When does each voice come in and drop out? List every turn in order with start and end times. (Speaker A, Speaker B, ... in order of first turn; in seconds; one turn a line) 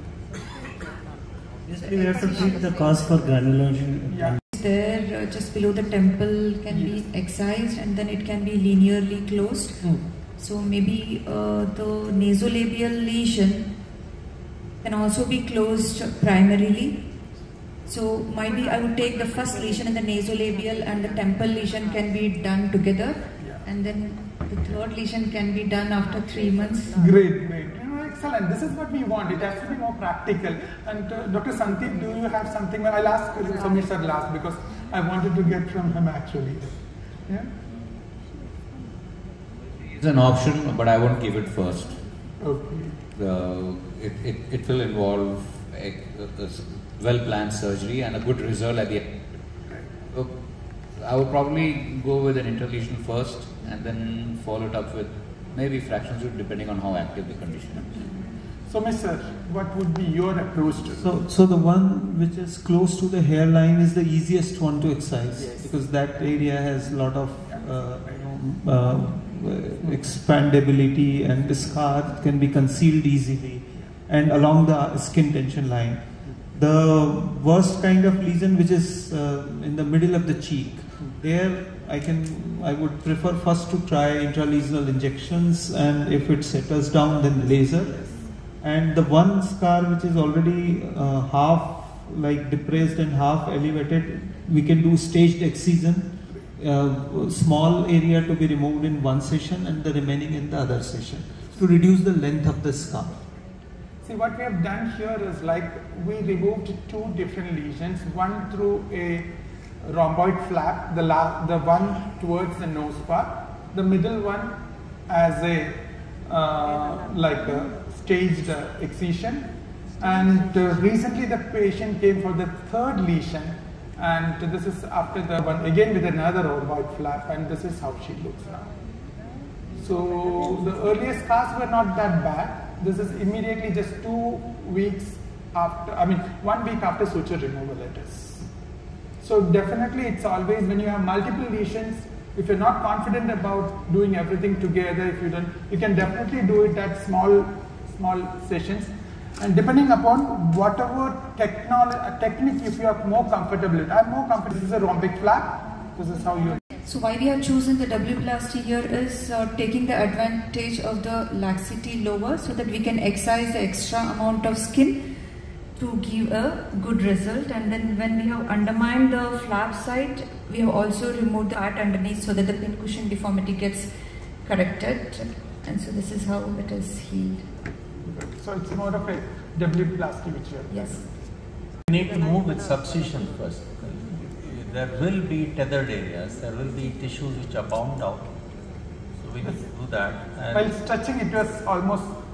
Speaker A: 1.7-4.4
Speaker B: 1.8-3.0
Speaker C: 4.1-4.4
Speaker B: 4.5-9.8
Speaker B: 10.4-13.7
Speaker B: 14.8-17.0
Speaker B: 17.9-27.1
Speaker C: 27.0-36.7
Speaker D: 39.9-42.0
Speaker C: 42.4-43.0
Speaker D: 43.1-49.1
Speaker D: 51.0-58.0
Speaker C: 58.7-61.1
Speaker E: 61.0-76.0
Speaker E: 76.5-88.0
Speaker E: 88.6-103.2
Speaker C: 104.0-109.3
Speaker C: 109.8-114.5
Speaker C: 115.1-119.5
Speaker C: 120.0-128.7
Speaker C: 129.8-138.4
Speaker C: 139.2-156.6
Speaker B: 156.8-164.9
Speaker B: 165.8-173.9
Speaker B: 174.4-177.4
Speaker C: 178.1-181.0
Speaker B: 180.7-181.0
Speaker F: 181.9-188.3
Speaker F: 189.2-190.7
Speaker C: 190.5-192.1